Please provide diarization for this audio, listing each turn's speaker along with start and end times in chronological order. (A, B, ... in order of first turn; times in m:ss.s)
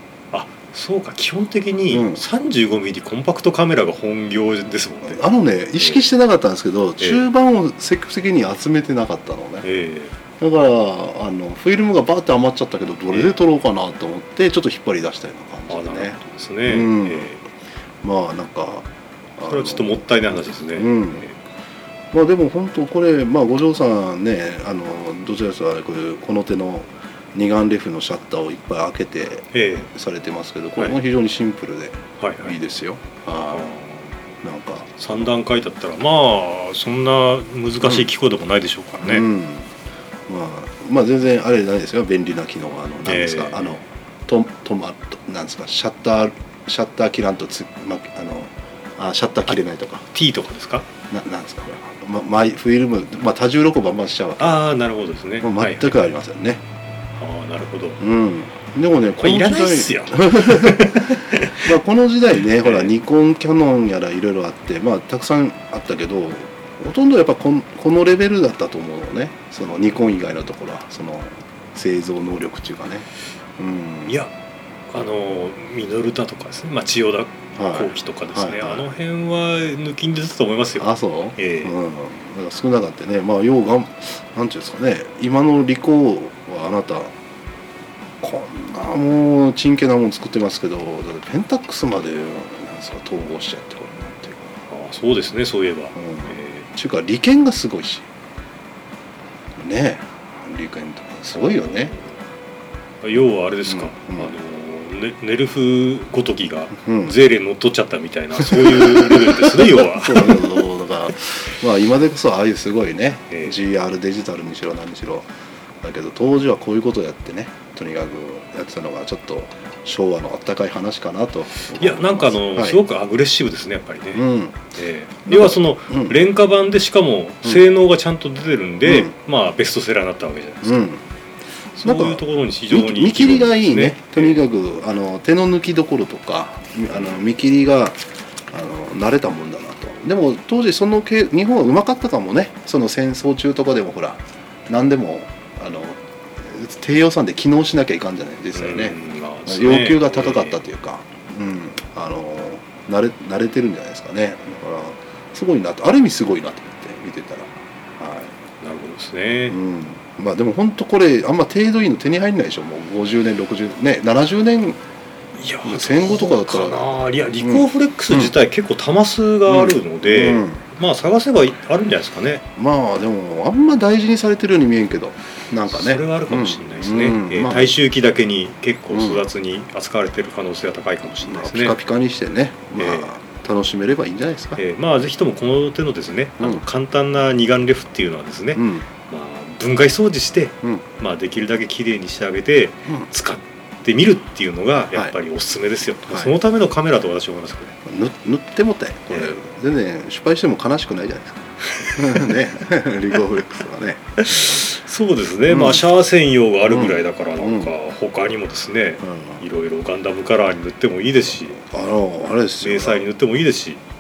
0:00.3-0:05.2 A
0:01.9-0:02.2 B
0:05.1-0:09.6 B
0:05.8-0:06.0 A
0:07.0-0:07.2 A
0:09.6-0:10.1 A
0:10.4-0:17.3 B
0:13.1-0:13.4 A
0:15.7-0:17.4 A
0:18.0-0:18.9 B
0:19.4-0:20.1 B
0:19.5-0:21.4 A
0:20.7-0:21.2 B
0:22.1-0:33.8 B
0:29.5-0:29.9 A
0:32.2-0:32.6 A
0:33.5-0:34.1 A
0:34.4-0:35.4 B
0:35.0-0:39.3 A
0:39.0-0:39.7 B
0:40.3-0:50.1 B
0:43.0-0:43.8 A
0:50.1-0:50.9 A
0:51.1-0:54.7 B
0:54.4-0:56.0 A
0:55.4-0:56.6 B
0:57.2-0:58.0 A
0:58.0-1:14.2 B
0:59.2-1:01.7 A
1:02.6-1:02.9 A
1:14.0-1:14.3 A
1:14.9-1:21.8 A
1:17.6-1:18.9 B
1:20.8-1:27.1 B
1:28.2-1:34.5 B
1:34.7-1:36.6 A
1:36.0-1:38.0 B
1:39.6-1:41.9 B
1:41.3-1:42.0 A
1:43.0-1:50.6 A
1:43.7-1:44.3 B
1:46.8-1:47.1 B
1:48.4-1:55.3 B
1:55.8-2:02.8 B
2:01.8-2:10.8 A
2:04.1-2:04.7 B
2:05.3-2:06.2 B
2:08.8-2:09.1 B
2:10.6-2:11.0 B
2:11.8-2:14.4 A
2:11.8-2:18.0 B
2:18.5-2:38.4 B
2:28.5-2:30.6 A
2:38.6-2:39.6 A
2:39.5-2:44.8 B
2:45.4-2:52.4 A
2:45.6-2:48.3 B
2:49.5-2:50.6 B
2:52.6-2:57.8 B
2:55.7-3:01.8 A
2:58.9-2:59.2 B
3:01.2-3:04.6 B
3:02.8-3:03.2 A
3:04.6-3:17.8 A
3:08.5-3:08.9 B
3:16.1-3:16.4 B
3:17.9-3:24.7 B
3:21.8-3:22.4 A
3:24.2-3:31.6 A
3:25.5-3:25.8 B
3:26.6-3:27.7 B
3:29.0-3:29.4 B
3:31.6-3:33.1 B
3:32.6-3:33.8 A